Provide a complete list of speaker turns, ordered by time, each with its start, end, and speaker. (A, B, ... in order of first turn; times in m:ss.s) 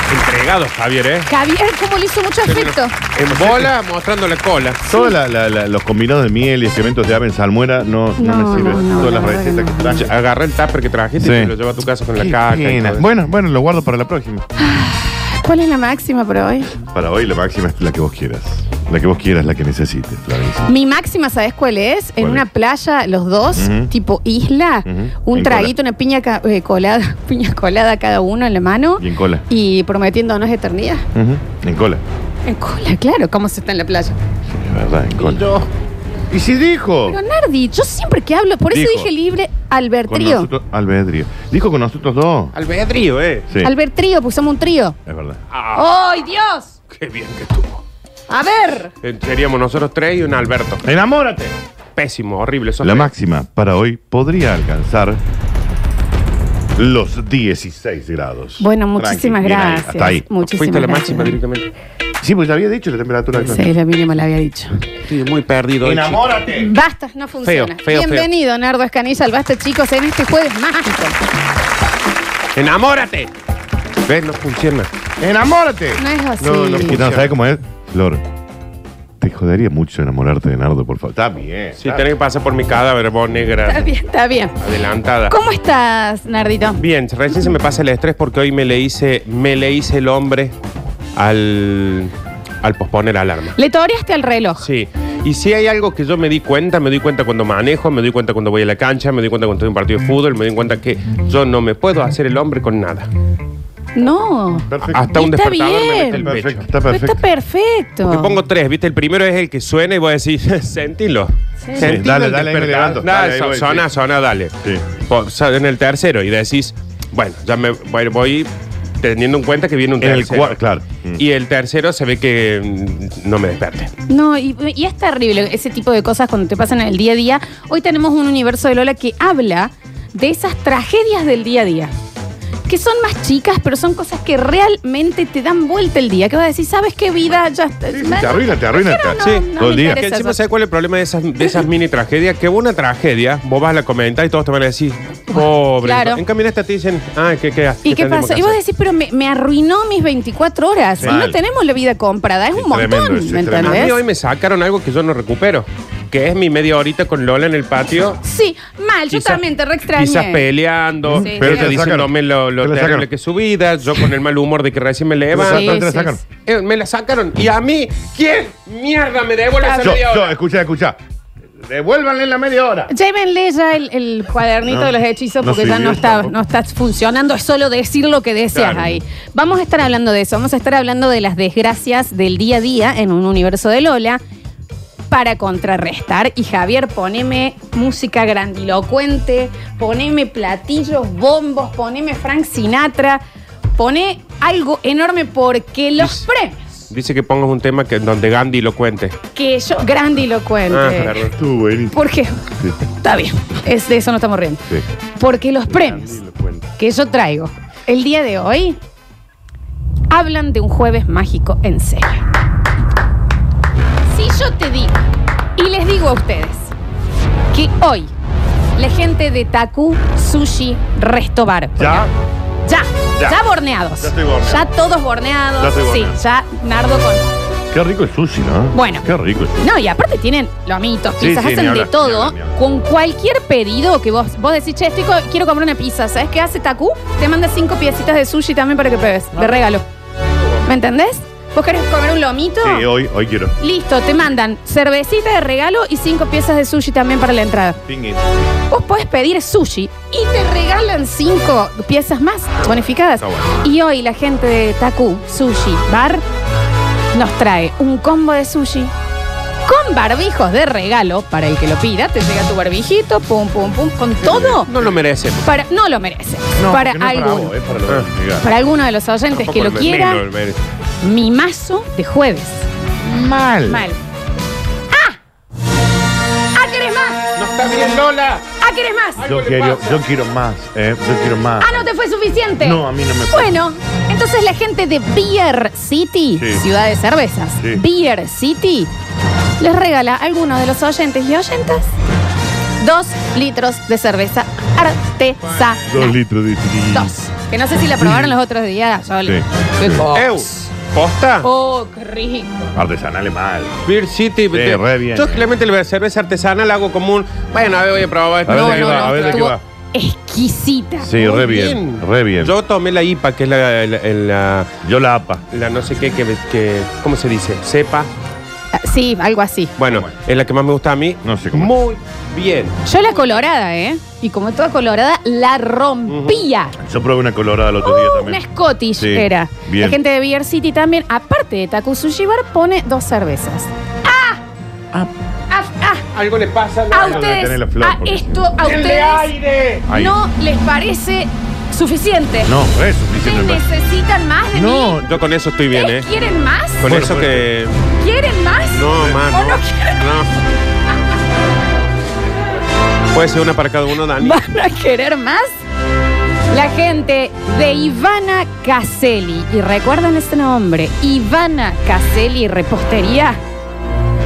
0:00.1-0:01.3 A
0:01.3-0:03.0 B
0:02.4-0:04.8 A
0:03.3-0:03.7 C
0:04.9-0:10.1 C
0:04.9-0:05.1 B
0:08.2-0:09.9 B
0:10.0-0:13.1 A
0:11.2-0:11.6 C
0:12.2-0:14.5 C
0:14.6-0:16.7 B
0:16.8-0:20.7 C
0:20.7-0:31.1 B
0:22.2-0:22.4 C
0:23.6-0:23.9 C
0:24.8-0:25.7 C
0:29.0-0:29.4 C
0:31.2-0:32.0 C
0:32.5-0:34.2 B
0:34.5-0:35.5 C
0:35.2-0:35.7 A
0:36.3-0:37.2 C
0:37.1-0:40.5 B
0:38.7-0:39.1 C
0:40.1-0:42.6 C
0:42.6-0:43.5 A
0:43.6-0:45.0 B
0:45.1-0:45.4 C
0:45.5-0:45.9 A
0:45.7-0:46.8 B
0:46.9-0:47.8 A
0:48.3-0:48.9 B
0:49.0-0:50.8 A
0:50.8-0:51.6 C
0:52.0-0:53.1 A
0:52.8-0:55.2 C
0:56.8-1:00.2 C
0:58.6-1:01.4 B
1:00.6-1:01.7 A
1:02.2-1:03.7 C
1:03.4-1:04.8 B
1:05.1-1:06.2 A
1:05.8-1:06.7 C
1:06.5-1:11.2 B
1:07.4-1:08.3 A
1:12.6-1:13.3 A
1:14.0-1:14.9 A
1:15.2-1:16.0 C
1:16.0-1:17.0 B
1:16.4-1:17.3 A
1:16.8-1:18.2 C
1:19.2-1:22.1 C
1:21.8-1:23.9 A
1:23.7-1:24.6 B
1:24.6-1:25.4 A
1:25.3-1:26.8 B
1:26.8-1:30.5 A
1:31.2-1:33.6 A
1:33.6-1:34.6 B
1:34.6-1:43.1 A
1:44.0-1:46.3 B
1:44.7-1:45.1 C
1:44.9-1:46.7 A
1:46.2-1:47.2 C
1:46.8-1:48.4 B
1:48.0-1:58.5 A
1:51.6-1:52.0 B
1:51.8-1:53.9 C
1:59.0-2:00.6 A
2:00.0-2:01.2 C
2:01.2-2:03.9 A
2:04.1-2:11.9 B
2:12.7-2:20.4 B
2:17.9-2:20.0 C
2:19.2-2:28.6 A
2:25.3-2:26.2 B
2:27.8-2:34.0 B
2:31.0-2:31.4 C
2:32.5-2:34.0 C
2:33.6-2:38.2 A
2:38.2-2:40.5 B
2:39.1-2:45.8 A
2:41.0-2:43.1 C
2:41.2-2:41.7 B
2:45.3-2:46.2 C
2:45.4-2:46.2 B
2:46.4-2:50.4 A
2:49.6-2:50.0 B
2:49.8-2:51.0 C
2:51.6-2:52.9 C
2:52.9-3:04.2 B
2:54.7-2:56.3 C
2:58.5-2:58.9 A
3:05.1-3:13.2 B
3:13.8-3:16.7 B
3:16.0-3:16.3 A
3:16.9-3:19.2 A
3:19.4-3:21.2 B
3:20.7-3:21.3 A
3:21.3-3:22.8 C
3:21.9-3:24.6 B
3:25.2-3:26.2 B
3:25.7-3:26.7 C
3:26.8-3:28.8 B
3:30.1-3:32.3 B
3:34.1-3:35.0 B
3:35.6-3:36.7 B
3:37.5-3:38.1 B
3:38.8-3:42.0 B
3:41.8-3:42.1 C
3:42.7-3:47.3 B
3:43.2-3:43.4 C
3:44.0-3:44.7 C
3:45.6-3:46.2 C
3:47.7-3:49.7 C
3:48.7-3:49.1 B
3:49.6-3:59.8 B
3:51.2-3:52.6 C
4:00.6-4:02.9 B
4:02.6-4:03.6 C
4:03.6-4:07.8 B
4:07.8-4:08.4 C
4:08.7-4:16.2 B
4:17.1-4:18.9 B
4:19.7-4:24.7 B
4:24.2-4:24.7 C
4:24.7-4:25.5 A
4:25.4-4:27.5 B
4:26.6-4:28.5 C
4:28.4-4:30.2 B
4:29.3-4:30.6 A
4:31.0-4:32.7 B
4:33.0-4:33.8 C
4:33.7-4:34.0 B
4:34.9-4:35.2 B
4:36.6-4:37.2 B
4:37.4-4:38.5 A
4:38.6-4:39.3 B
4:39.2-4:40.0 A
4:39.2-4:41.8 C
4:41.6-4:48.9 B
4:42.6-4:43.6 C
4:46.4-4:46.6 C
4:49.6-4:51.9 B
4:52.8-4:56.2 B
4:55.9-4:57.1 C
4:56.9-5:00.3 B
4:58.0-4:58.4 C
4:59.2-5:00.1 C
5:00.1-5:01.5 A
5:01.4-5:02.8 B
5:02.8-5:03.8 C
5:03.8-5:09.5 A
5:04.5-5:05.5 C
5:08.4-5:09.6 C
5:08.5-5:11.2 B
5:11.0-5:12.6 C
5:11.2-5:14.7 A
5:14.8-5:15.4 C
5:15.5-5:18.1 A
5:18.7-5:19.7 B
5:19.8-5:22.8 A
5:21.2-5:21.8 C
5:22.8-5:26.8 B
5:26.1-5:26.4 A
5:26.8-5:28.4 C
5:27.8-5:34.4 B
5:29.0-5:30.0 C
5:35.5-5:36.0 B
5:36.1-5:37.3 A
5:36.9-5:39.3 B
5:37.0-5:38.5 C
5:38.6-5:39.9 A
5:39.9-5:40.2 C
5:39.9-5:42.5 B
5:42.4-5:43.6 C
5:43.1-5:45.0 B
5:44.5-5:45.2 C
5:45.0-5:46.1 A
5:45.7-5:46.9 B
5:46.8-5:47.8 A
5:46.8-5:47.5 C
5:48.0-5:50.1 B
5:48.7-5:50.3 A
5:53.1-5:54.4 A
5:54.1-5:55.6 B
5:56.5-6:03.4 B